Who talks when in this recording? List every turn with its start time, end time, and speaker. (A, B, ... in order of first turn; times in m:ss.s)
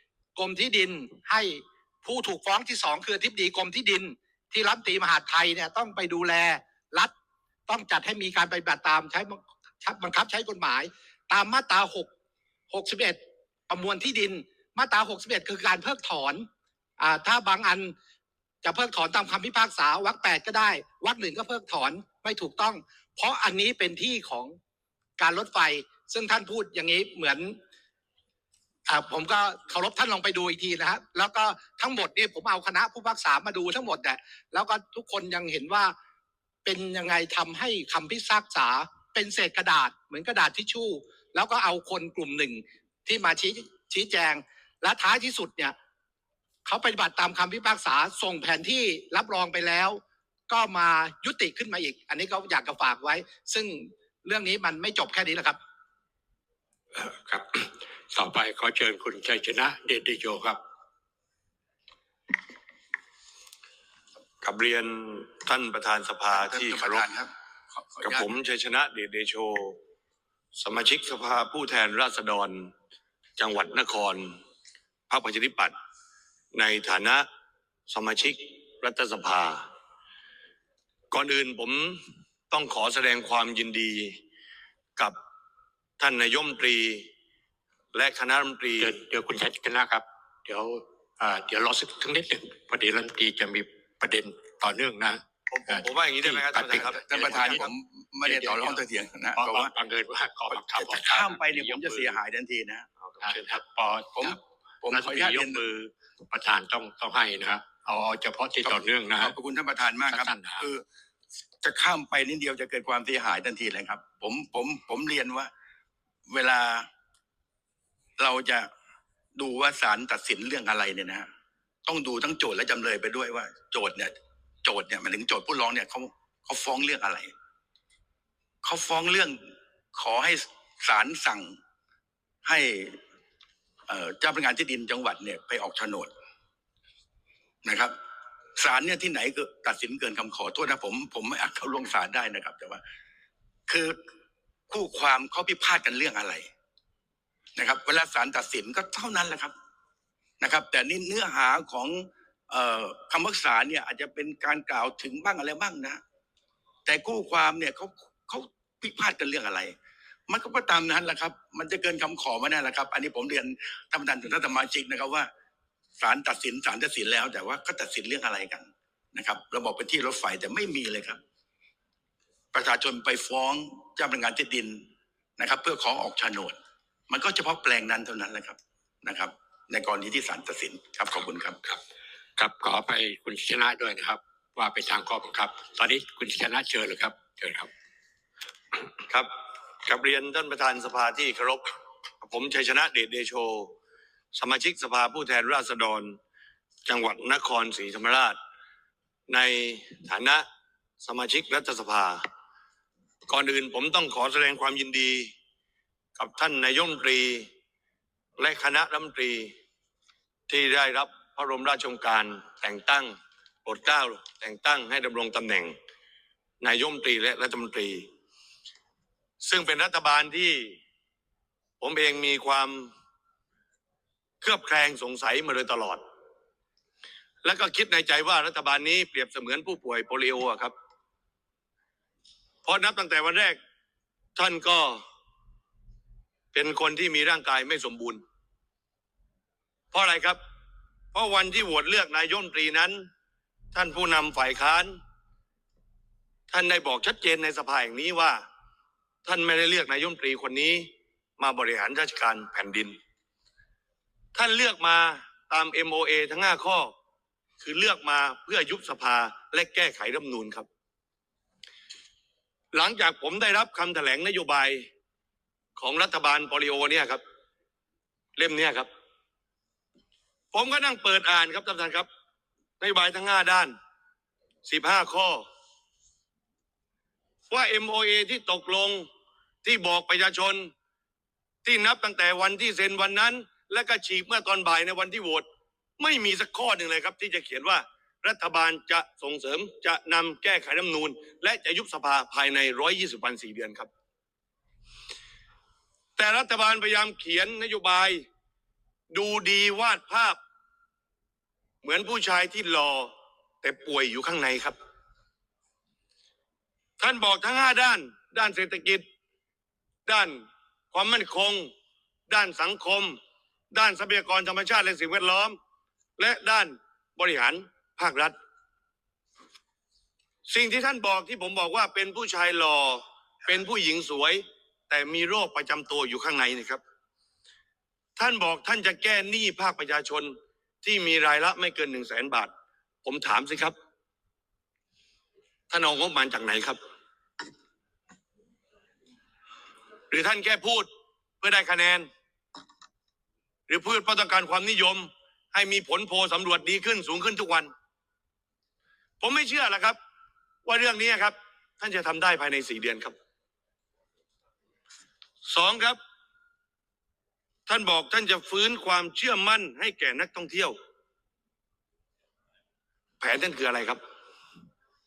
0:00.4-0:07.1 A
0:07.7-0:12.1 A
0:12.7-0:16.5 A
0:17.0-0:17.9 A
0:18.6-0:24.6 A
0:25.2-0:27.6 A
0:28.9-0:35.9 A
0:36.6-0:45.8 A
0:46.6-0:55.6 A
0:57.0-1:00.6 B
1:04.4-1:07.0 C
1:06.3-1:08.3 D
1:08.0-1:09.8 C
1:10.6-1:12.7 C
1:13.4-1:14.4 C
1:15.1-1:15.7 C
1:16.5-1:17.3 C
1:17.9-1:19.7 C
1:21.1-1:24.2 C
1:26.0-1:27.1 C
1:27.9-1:29.0 C
1:28.8-1:37.7 B
1:35.5-1:37.6 C
1:36.8-1:39.7 D
1:38.2-1:38.8 B
1:39.4-1:42.2 B
1:40.5-1:42.8 D
1:43.0-1:43.6 C
1:43.2-1:49.4 B
1:44.2-1:45.6 D
1:48.6-1:50.8 D
1:50.1-1:50.7 B
1:51.6-1:55.5 D
1:56.3-1:56.9 D
1:58.2-1:58.7 D
1:59.4-2:01.3 D
2:01.9-2:04.1 D
2:04.6-2:07.3 D
2:08.6-2:11.6 D
2:12.4-2:13.0 D
2:13.9-2:16.1 D
2:17.6-2:17.9 D
2:18.6-2:22.8 D
2:23.7-2:24.0 D
2:24.7-2:26.5 D
2:27.6-2:29.5 D
2:30.4-2:36.0 D
2:36.9-2:39.8 D
2:40.3-2:45.3 D
2:46.0-2:51.2 D
2:52.5-2:56.6 D
2:57.1-3:01.6 D
3:02.4-3:07.7 B
3:09.8-3:11.7 C
3:12.2-3:13.7 C
3:14.3-3:16.2 C
3:16.9-3:18.4 C
3:19.3-3:20.5 C
3:21.0-3:22.3 C
3:23.3-3:25.3 C
3:26.2-3:27.5 C
3:28.4-3:29.5 C
3:30.5-3:35.8 C
3:36.6-3:38.1 C
3:39.4-3:40.8 C
3:41.8-3:42.9 C
3:44.4-3:46.0 C
3:47.4-3:50.7 C
3:52.6-3:53.6 C
3:54.4-3:55.0 C
3:56.5-3:58.2 C
3:59.9-4:00.4 C
4:01.1-4:03.1 C
4:03.7-4:05.0 C
4:06.5-4:08.4 C
4:09.2-4:13.0 C
4:14.3-4:16.9 C
4:17.6-4:20.7 C
4:22.7-4:24.9 C
4:25.8-4:27.2 C
4:28.4-4:28.9 C
4:30.5-4:32.1 C
4:32.8-4:33.7 C
4:34.6-4:35.4 C
4:37.5-4:39.1 C
4:39.6-4:40.7 C
4:41.6-4:45.4 C
4:46.0-4:53.9 C
4:56.2-4:58.2 C
4:59.1-5:00.4 C
5:01.8-5:04.8 C
5:07.0-5:09.0 C
5:10.1-5:11.7 C
5:12.3-5:13.2 C
5:13.7-5:15.6 C
5:16.2-5:18.4 C
5:20.5-5:26.8 C
5:28.2-5:32.5 C
5:33.0-5:33.7 C
5:35.7-5:36.8 C
5:40.1-5:40.9 C
5:41.4-5:42.1 C
5:43.7-5:47.7 C
5:49.2-5:50.0 C
5:50.7-5:53.2 C
5:55.4-5:56.0 C
5:57.7-6:00.8 C
6:03.2-6:04.0 C